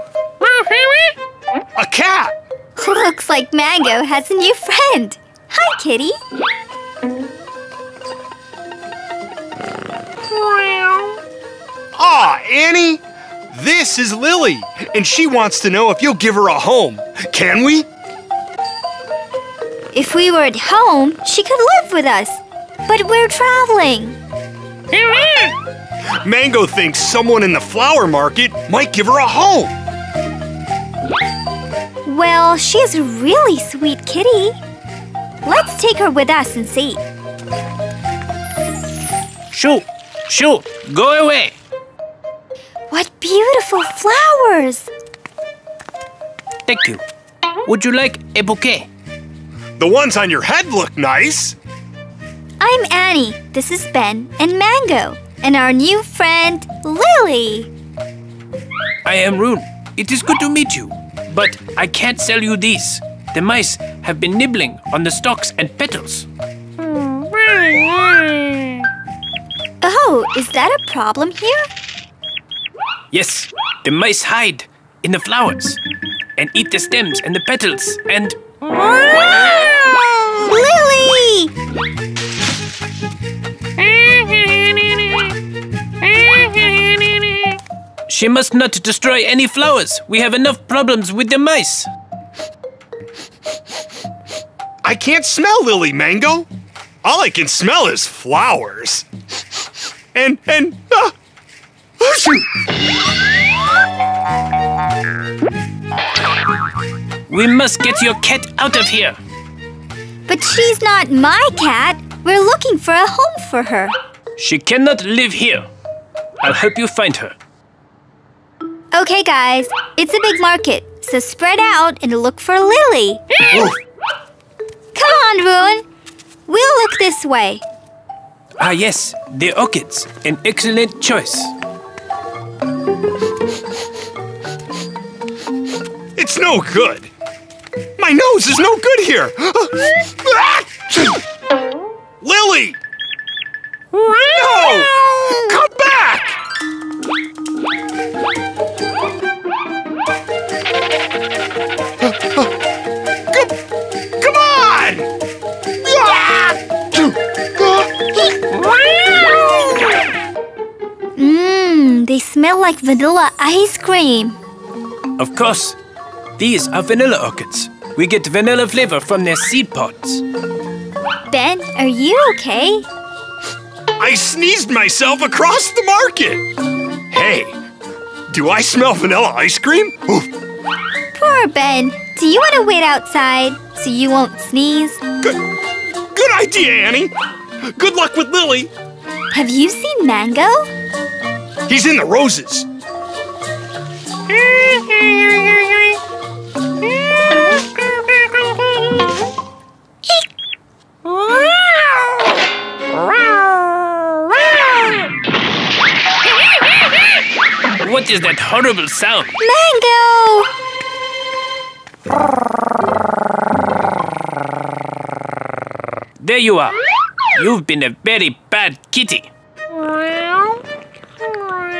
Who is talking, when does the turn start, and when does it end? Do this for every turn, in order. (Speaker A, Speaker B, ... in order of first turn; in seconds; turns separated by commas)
Speaker A: 1.8-2.3, Speaker B: 2.8-6.2, Speaker A: 11.9-17.9, Speaker B: 19.9-24.2, Speaker A: 26.2-29.7, Speaker B: 32.0-34.6, Speaker B: 35.4-37.0, Speaker C: 39.5-41.5, Speaker B: 42.9-44.9, Speaker C: 46.7-47.0, Speaker C: 47.7-48.9, Speaker A: 49.8-51.5, Speaker B: 52.6-57.7, Speaker C: 59.0-66.3, Speaker C: 67.5-68.1, Speaker B: 69.8-71.7, Speaker C: 73.1-75.8, Speaker C: 76.3-78.4, Speaker B: 79.0-81.5, Speaker C: 88.1-91.9, Speaker A: 94.8-96.5, Speaker A: 97.0-99.0, Speaker A: 100.1-101.1, Speaker A: 102.0-102.5, Speaker C: 107.3-109.2, Speaker B: 110.3-114.0, Speaker C: 114.4-115.7, Speaker C: 116.4-117.3, Speaker B: 118.9-123.2, Speaker B: 124.9-125.8, Speaker B: 126.5-127.6, Speaker C: 128.6-131.5, Speaker A: 136.2-137.1, Speaker A: 138.0-141.2, Speaker A: 142.2-142.8, Speaker A: 144.2-146.4, Speaker A: 152.0-152.5, Speaker A: 153.3-153.6, Speaker A: 154.2-155.1, Speaker A: 155.8-159.9, Speaker B: 161.2-164.4, Speaker C: 165.2-165.8, Speaker C: 166.4-170.2, Speaker B: 171.3-172.8, Speaker A: 174.0-176.4, Speaker A: 177.1-177.6, Speaker A: 178.3-180.3, Speaker B: 181.1-185.0, Speaker A: 186.1-188.7, Speaker B: 189.3-190.7, Speaker A: 191.7-192.7, Speaker C: 207.8-209.4, Speaker B: 209.4-210.5, Speaker C: 216.2-216.8, Speaker C: 217.3-219.3